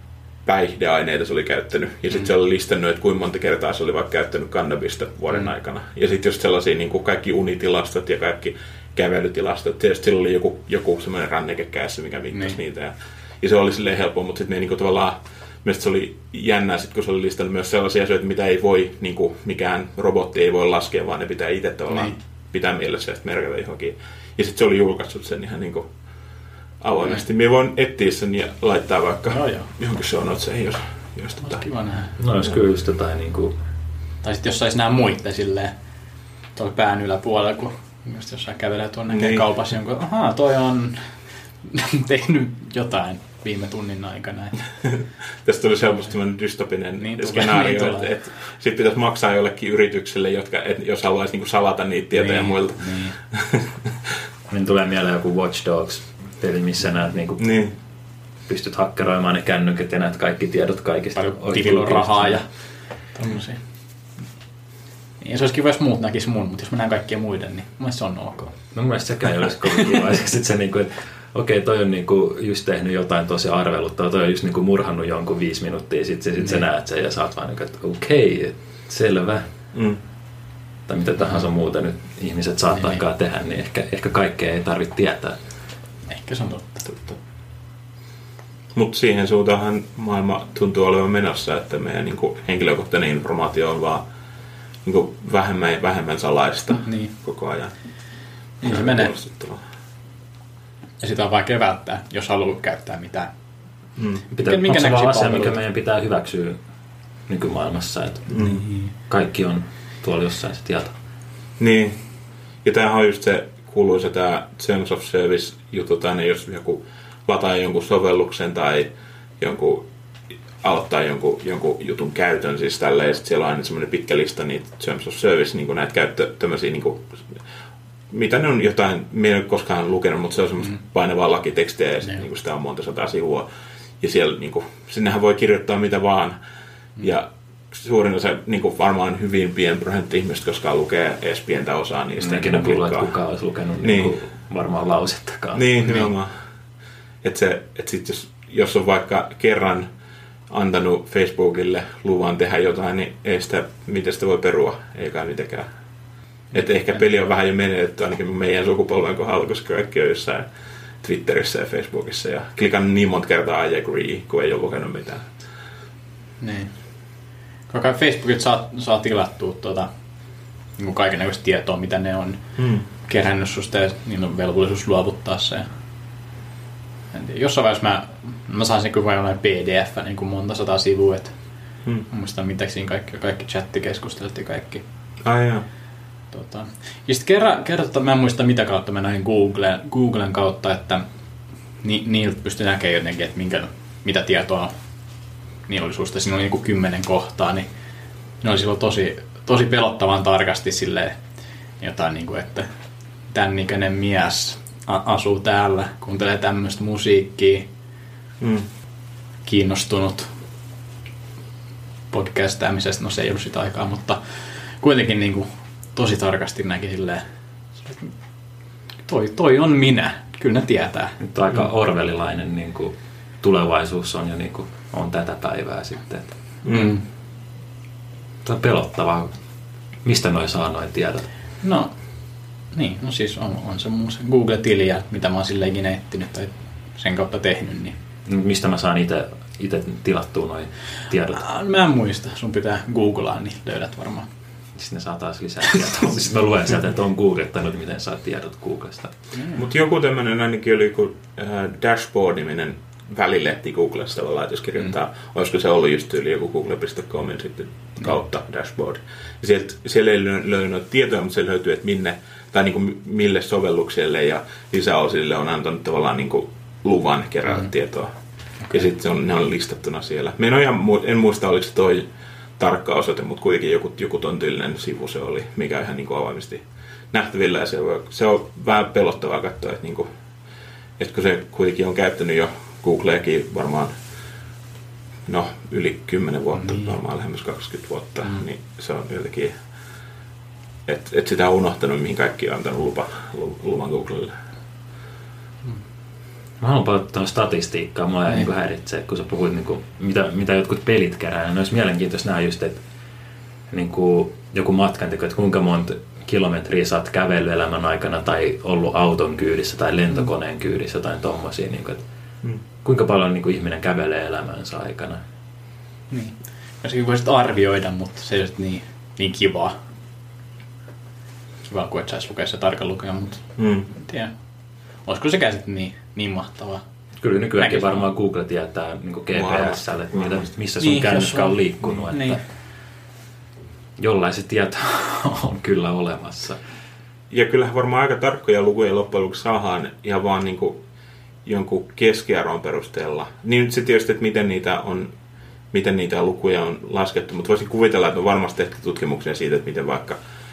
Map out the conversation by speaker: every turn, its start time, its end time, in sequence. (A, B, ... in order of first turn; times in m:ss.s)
0:00.4-0:25.9 A
0:12.3-0:12.6 B
0:21.9-0:22.2 B
0:26.8-0:31.6 A
0:29.3-0:29.7 B
0:31.4-0:32.2 B
0:32.2-0:33.5 C
0:34.2-0:35.7 B
0:36.5-0:44.6 B
0:39.1-0:39.4 A
0:44.8-0:53.7 A
0:47.0-0:48.1 B
0:52.2-0:53.2 B
0:54.5-0:57.6 C
0:57.4-0:57.7 A
0:58.5-1:02.4 C
1:01.2-1:03.6 B
1:05.2-1:08.6 B
1:08.7-1:19.5 C
1:19.7-1:20.0 A
1:20.9-1:25.4 C
1:26.1-1:27.2 B
1:28.7-1:34.0 A
1:34.8-1:37.7 A
1:36.8-1:37.1 B
1:38.6-1:39.6 A
1:38.6-1:39.1 B
1:41.0-1:43.3 B
1:44.0-1:44.2 A
1:44.3-1:46.6 C
1:44.4-1:45.6 B
1:47.3-1:48.3 C
1:48.3-1:48.6 A
1:48.4-1:48.9 B
1:49.1-1:50.9 C
1:51.6-1:52.0 A
1:52.6-1:58.9 A
1:59.4-1:59.9 A
2:00.6-2:07.2 A
2:08.1-2:13.4 A
2:14.0-2:16.4 A
2:17.0-2:23.1 A
2:22.2-2:25.6 C
2:23.8-2:24.2 A
2:25.5-2:26.3 A
2:25.8-2:26.1 B
2:27.2-2:29.9 A
2:30.5-2:35.7 A
2:36.5-2:40.5 A
2:41.0-2:45.3 A
2:46.4-2:46.7 B
2:47.7-2:49.9 B
2:50.8-2:55.6 B
2:52.6-2:52.8 A
2:57.1-3:01.3 B
3:02.1-3:04.8 B
3:05.2-3:05.6 A
3:06.3-3:11.0 B
3:11.8-3:14.7 B
3:15.7-3:17.7 B
3:18.4-3:21.2 B
3:21.8-3:22.7 B
3:23.3-3:27.7 B
3:28.4-3:28.7 A
3:29.4-3:30.3 B
3:32.1-3:37.2 B
3:37.8-3:38.1 B
3:39.0-3:41.1 B
3:41.2-3:46.4 C
3:46.6-3:47.0 A
3:46.7-3:47.0 B
3:48.4-3:49.3 C
3:50.0-3:51.3 C
3:51.6-3:51.9 B
3:52.7-3:58.0 B
3:58.2-4:01.4 C
4:01.3-4:04.3 B
4:04.7-4:09.1 C
4:09.3-4:09.6 B
4:09.5-4:28.1 A
4:28.7-4:32.0 A
4:32.6-4:40.1 A
4:41.0-4:43.9 A
4:45.3-4:49.6 A
4:46.6-4:46.9 B
4:50.9-4:54.3 A
4:56.6-5:02.8 C
5:03.7-5:12.0 C
5:12.8-5:15.2 C
5:16.1-5:19.8 B
5:21.6-5:24.3 B
5:23.6-5:23.9 A
5:25.0-5:26.8 B
5:27.2-5:32.4 C
5:27.6-5:28.1 B
5:29.3-5:30.5 A
5:30.8-5:32.4 B
5:34.0-5:36.6 C
5:37.3-5:40.8 A
5:41.4-5:45.1 A
5:45.7-5:50.2 A